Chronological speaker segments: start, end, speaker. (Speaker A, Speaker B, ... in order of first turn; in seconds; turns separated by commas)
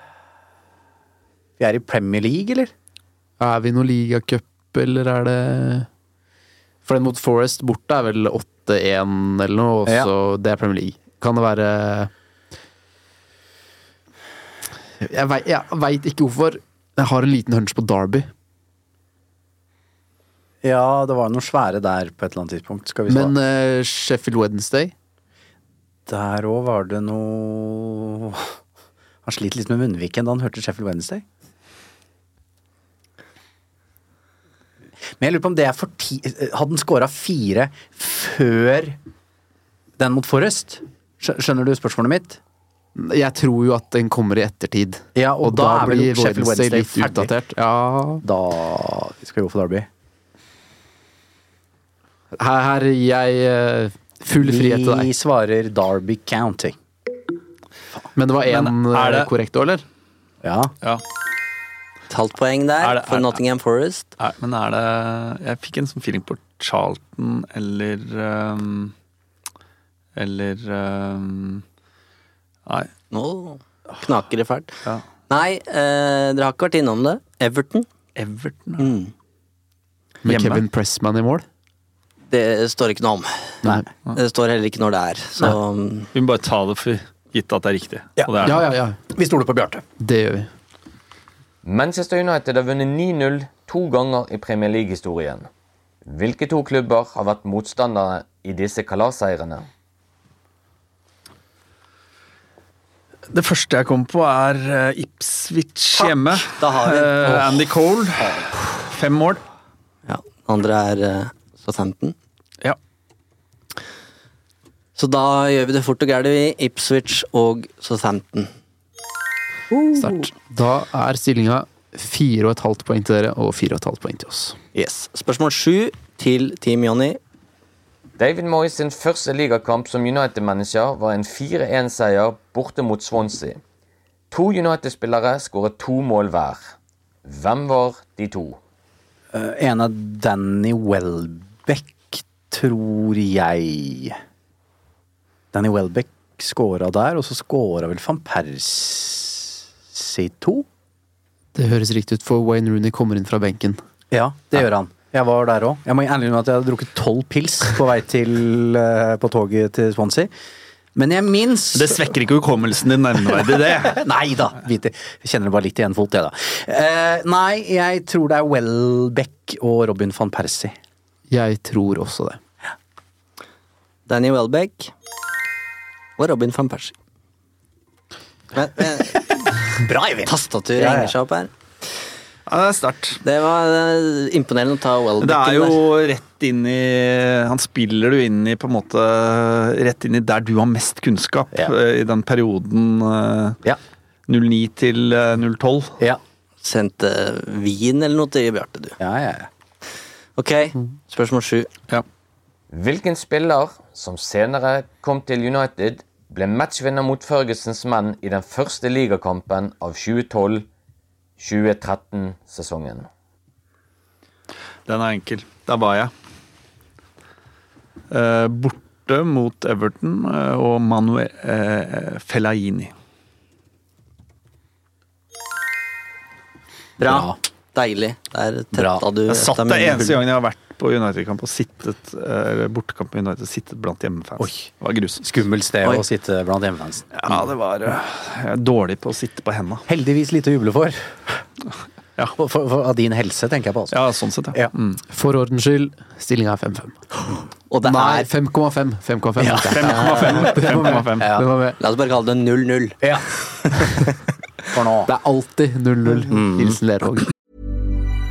Speaker A: 1.6-2.7, Speaker B: 3.4-5.9, Speaker B: 6.8-12.1, Speaker B: 15.0-18.3, Speaker A: 20.6-23.3, Speaker B: 23.1-24.9, Speaker A: 26.1-28.5, Speaker A: 29.2-31.2, Speaker A: 35.2-39.0, Speaker A: 40.0-42.4, Speaker B: 43.0-48.2, Speaker A: 45.1-47.3, Speaker A: 48.2-49.9, Speaker B: 52.4-55.1, Speaker A: 54.4-56.8, Speaker B: 58.1-59.8, Speaker C: 58.5-59.3, Speaker A: 60.4-60.7, Speaker D: 62.1-64.1, Speaker C: 62.8-63.4, Speaker C: 64.2-68.9, Speaker C: 70.2-71.6, Speaker D: 73.1-74.8, Speaker D: 75.3-77.8, Speaker C: 78.2-78.9, Speaker D: 78.8-79.1, Speaker B: 80.2-81.4, Speaker C: 80.2-80.6, Speaker D: 82.3-83.6, Speaker D: 84.1-86.1, Speaker C: 86.1-88.6, Speaker A: 88.2-88.6, Speaker B: 88.4-89.0, Speaker A: 89.1-89.8, Speaker B: 90.0-90.5, Speaker E: 91.6-95.5, Speaker E: 96.0-99.7, Speaker C: 103.3-109.4, Speaker D: 106.0-107.6, Speaker D: 110.1-112.1, Speaker D: 115.0-118.5, Speaker D: 119.7-120.2, Speaker B: 120.0-124.6, Speaker D: 124.7-127.2, Speaker E: 128.2-133.6, Speaker E: 134.3-136.7, Speaker E: 137.2-138.6, Speaker A: 139.3-144.2, Speaker A: 145.5-150.6, Speaker B: 151.5-153.8, Speaker A: 154.1-160.3, Speaker A: 160.9-162.1, Speaker C: 161.7-164.0, Speaker A: 163.3-170.7, Speaker B: 171.3-172.4, Speaker D: 174.1-174.9, Speaker D: 176.2-176.9, Speaker D: 178.5-179.2, Speaker A: 179.8-181.1, Speaker D: 180.2-181.5, Speaker C: 182.5-183.2, Speaker D: 183.2-185.8, Speaker C: 185.2-193.6, Speaker C: 194.3-196.0, Speaker D: 196.6-199.0, Speaker A: 199.0-199.5, Speaker D: 200.4-201.7, Speaker E: 202.7-210.7, Speaker E: 211.4-213.1, Speaker C: 214.9-216.1, Speaker C: 218.1-222.9, Speaker D: 227.0-230.1, Speaker A: 227.0-227.4, Speaker A: 228.7-229.0, Speaker C: 229.3-235.2, Speaker A: 234.4-234.7, Speaker A: 235.2-237.4, Speaker C: 237.1-239.8, Speaker A: 239.9-241.4, Speaker A: 242.4-244.0, Speaker C: 243.9-245.0, Speaker B: 245.1-247.3, Speaker D: 247.7-248.3, Speaker B: 247.8-251.8, Speaker A: 249.4-249.7, Speaker C: 249.7-251.3, Speaker A: 250.4-251.4, Speaker D: 251.8-253.0, Speaker A: 253.0-254.1, Speaker A: 254.7-255.1, Speaker B: 255.1-257.2, Speaker A: 256.2-256.8